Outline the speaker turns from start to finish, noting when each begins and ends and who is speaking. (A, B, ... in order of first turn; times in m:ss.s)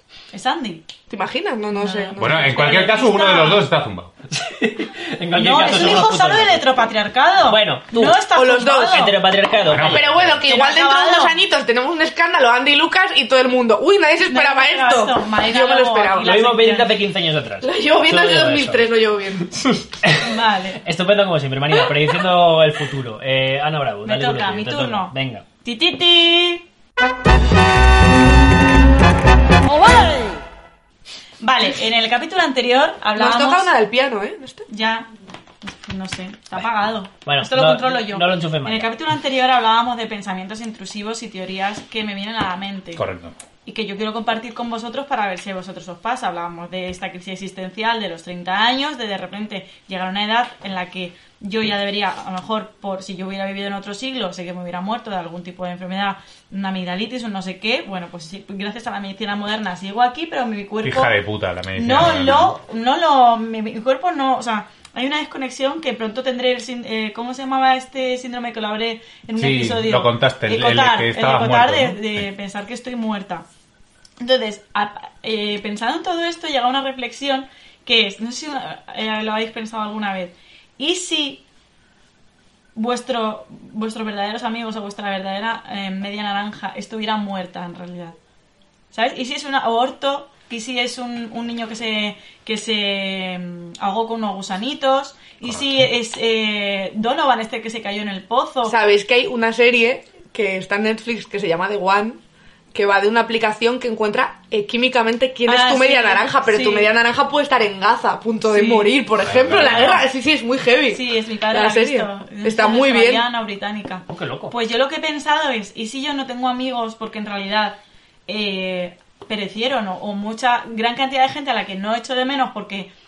0:00.3-0:00.9 A
0:01.1-0:02.5 B
0:01.7-0:03.7 A
0:02.2-0:04.1 C
0:04.3-0:06.7 D
0:05.4-0:09.2 A
0:07.4-0:08.2 D
0:08.4-0:09.1 B
0:08.9-0:10.3 D
0:09.6-0:10.4 C
0:09.8-0:16.4 B
0:10.4-0:11.4 A
0:14.3-0:17.0 A
0:16.2-0:18.9 D
0:17.6-0:19.6 B
0:20.0-0:25.4 D
0:20.2-0:20.8 A
0:24.0-0:26.6 A
0:31.4-0:33.7 A
0:33.2-0:34.6 B
0:34.7-0:35.1 A
0:35.6-0:43.0 A
0:37.2-0:38.9 D
0:43.0-0:43.4 C
0:43.6-1:01.1 A
1:00.8-1:02.6 C
1:01.8-1:13.4 A
1:09.4-1:12.2 C
1:14.2-1:21.4 A
1:22.8-1:28.2 A
1:28.9-1:38.8 A
1:35.5-1:35.8 C
1:38.6-1:42.2 B
1:42.7-1:53.2 B
1:45.5-1:46.9 A
1:48.5-1:49.0 A
1:49.2-1:50.0 C
1:49.6-1:50.0 A
1:50.9-2:02.9 A
1:54.1-1:54.5 D